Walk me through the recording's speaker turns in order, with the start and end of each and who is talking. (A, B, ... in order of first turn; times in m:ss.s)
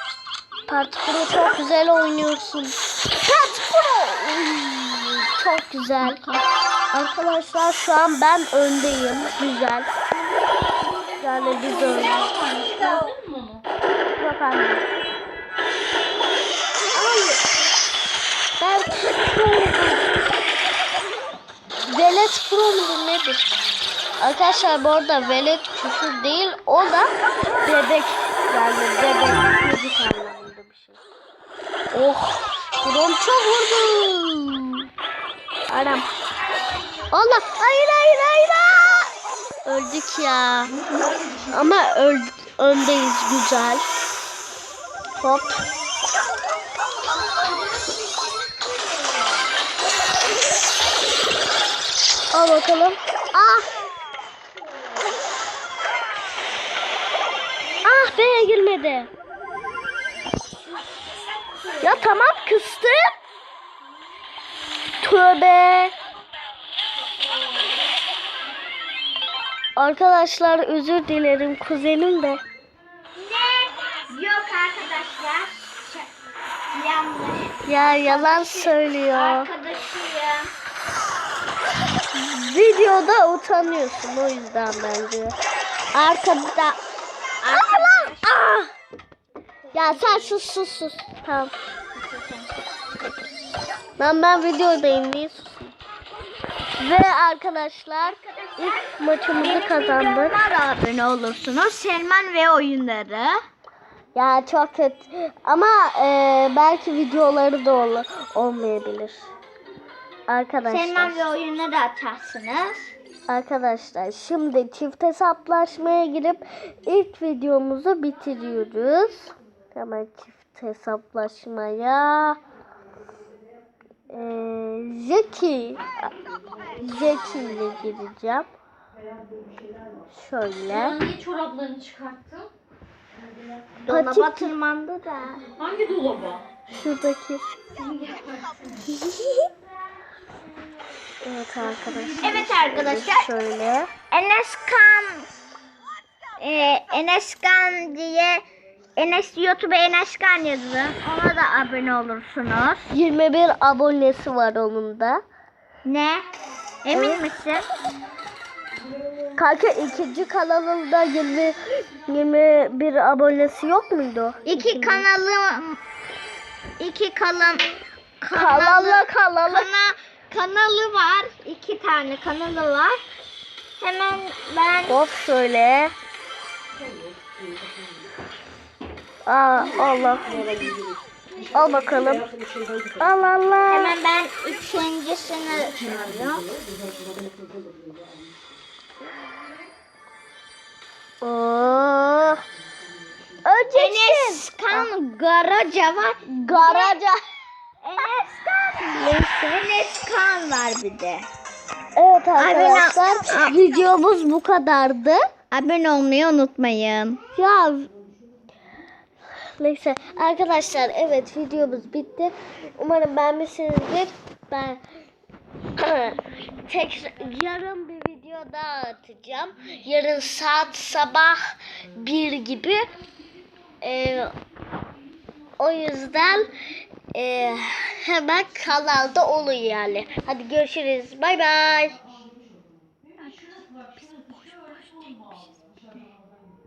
0:00.7-0:06.2 A
0:06.0-0:06.4 B
0:06.9-0:09.9 A
0:11.2-0:12.3 A
0:11.3-0:13.6 C
0:14.2-0:14.8 A
0:16.9-0:17.4 A
0:18.6-0:20.2 A
0:21.9-0:23.5 A
0:24.2-0:27.1 A
0:27.6-0:31.0 A
0:31.9-0:34.9 A
0:35.7-0:36.0 A
0:37.1-0:39.1 A
0:39.6-0:40.8 A
0:40.9-0:41.5 C
0:41.5-0:43.8 A
0:45.2-0:45.6 A
0:52.3-0:53.7 A
0:57.8-0:59.1 A
1:01.6-1:02.0 B
1:01.8-1:03.1 A
1:05.0-1:05.9 A
1:07.2-1:07.8 B
1:09.8-1:12.4 A
1:13.2-1:16.1 B
1:16.7-1:20.5 B
1:17.6-1:19.5 A
1:22.1-1:25.3 A
1:25.9-1:26.8 A
1:27.4-1:28.4 B
1:27.6-1:28.7 A
1:29.7-1:30.4 B
1:29.7-1:31.5 A
1:31.9-1:32.5 B
1:34.0-1:35.7 A
1:36.8-1:40.4 A
1:38.3-1:38.7 B
1:39.3-1:43.4 B
1:44.1-1:49.3 A
1:50.3-1:51.3 A
1:50.6-1:52.9 B
1:53.3-2:02.4 A
2:04.1-2:05.8 A
2:06.8-2:08.5 A
2:10.1-2:11.0 A
2:10.7-2:12.5 C
2:13.8-2:15.4 B
2:13.9-2:14.5 A
2:15.6-2:16.4 C
2:16.7-2:17.6 A
2:17.9-2:18.4 C
2:18.8-2:19.5 A
2:21.2-2:23.9 A
2:22.2-2:23.3 B
2:24.1-2:25.3 B
2:26.4-2:28.4 B
2:29.0-2:32.9 B
2:32.9-2:35.2 A
2:35.8-2:36.2 B
2:36.8-2:37.6 B
2:36.9-2:37.2 A
2:39.3-2:45.0 A
2:44.4-2:45.8 B
2:46.8-2:53.0 B
2:48.3-2:49.7 A
2:53.8-2:55.0 B
2:54.9-2:55.9 A
2:59.2-3:00.3 A
3:01.5-3:02.3 A
3:03.0-3:03.9 A
3:03.7-3:06.5 B
3:11.2-3:12.4 A
3:13.4-3:14.9 A
3:13.7-3:17.0 B
3:16.3-3:17.2 A
3:17.8-3:18.4 B
3:18.0-3:19.7 A
3:19.5-3:21.3 B
3:22.0-3:25.2 A
3:22.4-3:23.6 B
3:25.5-3:27.2 B
3:27.3-3:27.9 A
3:29.6-3:34.8 A
3:35.8-3:42.8 A
3:43.8-3:44.3 A
3:45.6-3:46.5 A
3:47.1-3:52.0 A
3:53.2-3:55.5 C